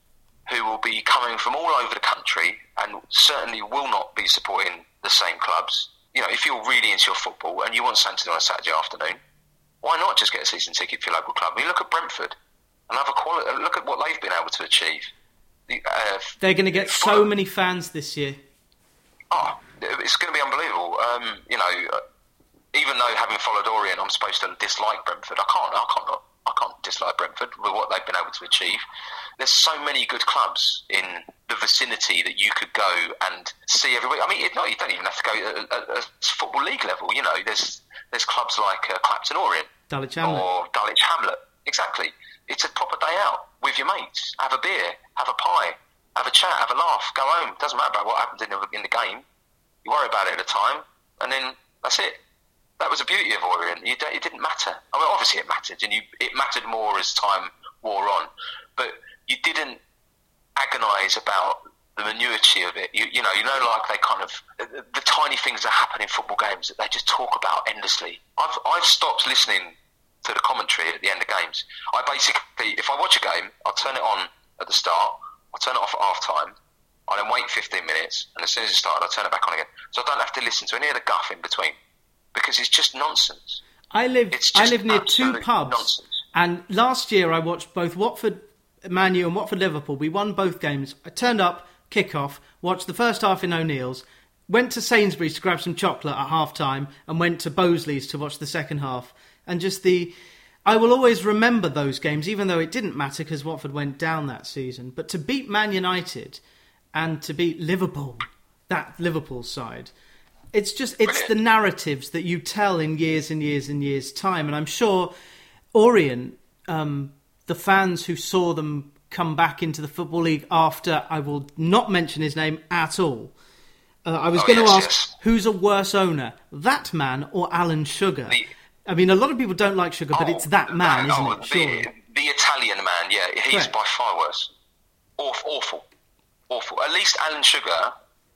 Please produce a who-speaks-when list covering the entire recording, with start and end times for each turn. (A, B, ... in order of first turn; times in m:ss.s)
0:00.5-0:09.2 A
0:09.8-0:12.4 A
0:12.9-0:15.1 A
0:15.7-0:17.3 A
0:16.4-0:18.4 B
0:19.3-0:22.0 A
0:22.7-0:28.8 A
0:29.4-0:39.7 A
0:39.9-0:40.5 B
0:40.2-0:49.2 A
0:49.8-0:52.2 A
0:52.8-0:59.8 A
1:00.6-1:16.5 A
1:17.1-1:21.7 A
1:22.3-1:23.6 A
1:23.9-1:40.1 B
1:24.3-1:26.0 A
1:40.6-1:46.4 B
1:46.9-1:49.9 B
1:50.5-1:55.1 B
1:51.0-1:51.3 A
1:55.7-2:03.3 B
2:04.0-2:11.9 B
2:04.4-2:05.1 A
2:10.1-2:14.5 A
2:15.2-2:15.8 A
2:16.5-2:17.9 A